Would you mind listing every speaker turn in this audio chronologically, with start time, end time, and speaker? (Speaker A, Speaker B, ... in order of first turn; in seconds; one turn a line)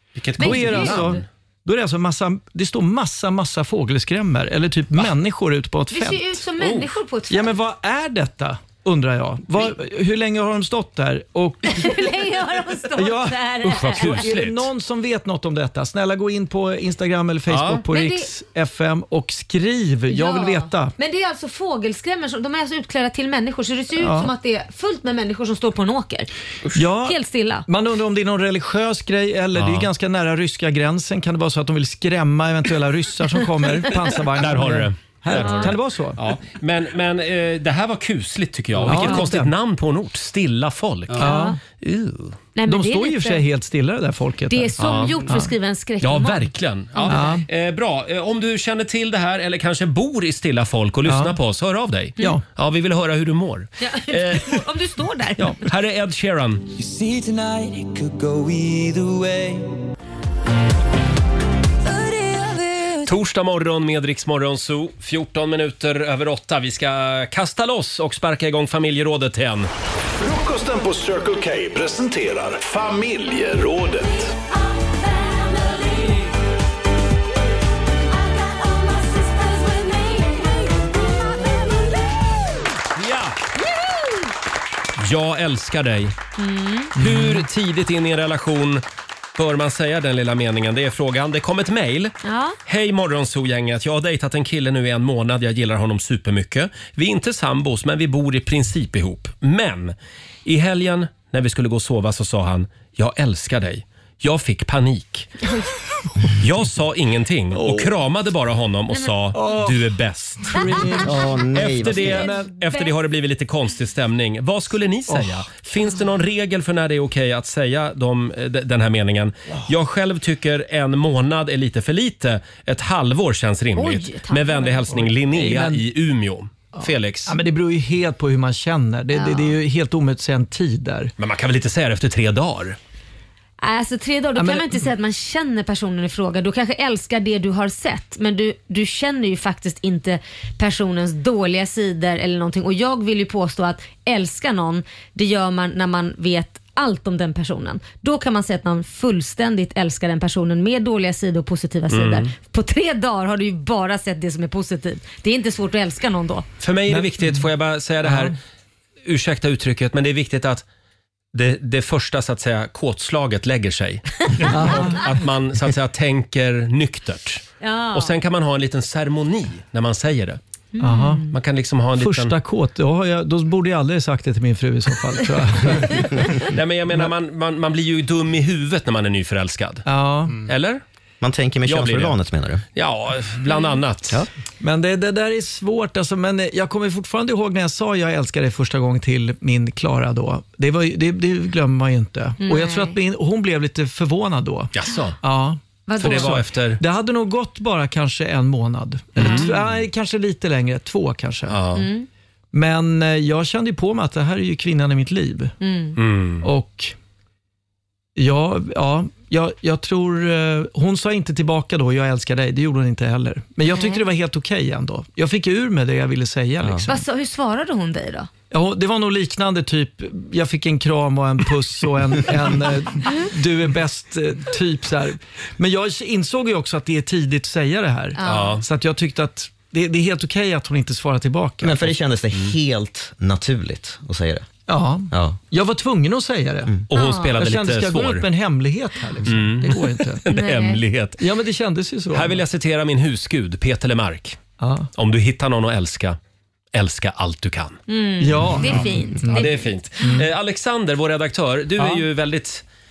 Speaker A: 0.1-1.2
Speaker B: 0.4-6.5
Speaker C: 0.4-1.2
Speaker C: 5.9-7.5
Speaker B: 7.3-12.1
Speaker C: 11.6-14.3
Speaker B: 12.9-20.9
Speaker A: 13.6-14.7
Speaker A: 17.5-17.8
Speaker C: 17.9-18.3
Speaker C: 20.1-26.3
Speaker B: 24.0-24.3
Speaker B: 26.7-36.2
Speaker C: 27.0-27.6
Speaker A: 29.6-29.9
Speaker A: 34.4-42.4
Speaker C: 35.3-35.7
Speaker B: 38.8-39.5
Speaker C: 38.9-39.2
Speaker B: 41.2-41.6
Speaker C: 41.2-41.6
Speaker C: 42.5-43.4
Speaker B: 42.6-45.5
Speaker C: 44.5-47.4
Speaker A: 44.8-45.2
Speaker A: 46.0-54.6
Speaker B: 47.1-47.4
Speaker B: 51.0-51.4
Speaker C: 53.8-55.6
Speaker A: 55.4-56.7
Speaker D: 56.8-59.7
Speaker D: 62.0-62.8
Speaker A: 63.0-69.7
Speaker E: 70.2-74.3
Speaker C: 79.2-80.2
Speaker A: 82.9-83.4
Speaker A: 85.0-86.2
Speaker C: 86.4-86.9
Speaker A: 87.0-88.8
Speaker B: 87.0-87.5
Speaker A: 89.3-105.3
Speaker C: 92.2-92.6
Speaker A: 106.4-111.0
Speaker B: 107.5-107.9
Speaker B: 109.3-109.9
Speaker B: 110.4-112.5
Speaker C: 110.5-111.0
Speaker F: 111.0-112.2
Speaker A: 111.5-127.3
Speaker C: 112.2-112.9
Speaker B: 115.1-115.5
Speaker C: 123.8-124.9
Speaker B: 125.0-125.8
Speaker B: 126.8-131.1
Speaker C: 129.1-129.5
Speaker A: 131.2-132.8
Speaker C: 133.6-156.4
Speaker B: 134.3-134.8
Speaker A: 151.9-152.3
Speaker A: 156.6-158.3
Speaker B: 156.9-157.5
Speaker B: 158.0-158.3
Speaker A: 159.0-160.6
Speaker A: 161.3-170.4
Speaker B: 164.5-165.2
Speaker C: 167.6-168.1
Speaker C: 170.7-171.3
Speaker B: 170.8-171.3
Speaker A: 171.3-172.3
Speaker B: 172.0-176.2
Speaker A: 176.4-179.9
Speaker B: 179.8-180.4
Speaker A: 180.4-180.8
Speaker F: 181.2-182.6
Speaker A: 181.6-182.2
Speaker A: 182.7-184.2
Speaker B: 184.6-201.6
Speaker C: 192.4-193.0
Speaker A: 194.7-195.2
Speaker C: 195.9-196.4
Speaker A: 196.0-196.8
Speaker A: 199.2-199.5
Speaker C: 199.2-199.4
Speaker A: 201.5-201.9
Speaker C: 201.7-202.1
Speaker B: 202.5-205.5
Speaker C: 205.6-206.0
Speaker A: 206.0-206.5
Speaker B: 206.4-206.9
Speaker B: 208.2-217.0
Speaker C: 213.7-214.0
Speaker C: 216.8-218.3
Speaker B: 218.5-231.9
Speaker C: 228.2-228.6
Speaker A: 228.2-228.6
Speaker F: 231.6-234.5
Speaker B: 234.7-236.8
Speaker F: 235.1-235.4
Speaker A: 236.9-238.2
Speaker C: 236.9-237.3
Speaker B: 237.3-240.2
Speaker A: 239.2-241.2
Speaker C: 240.3-240.8
Speaker B: 241.2-242.4
Speaker A: 242.1-244.4
Speaker B: 244.6-244.9
Speaker A: 244.9-246.2
Speaker A: 246.7-247.8
Speaker C: 247.9-250.2
Speaker B: 248.2-250.3
Speaker A: 249.3-252.6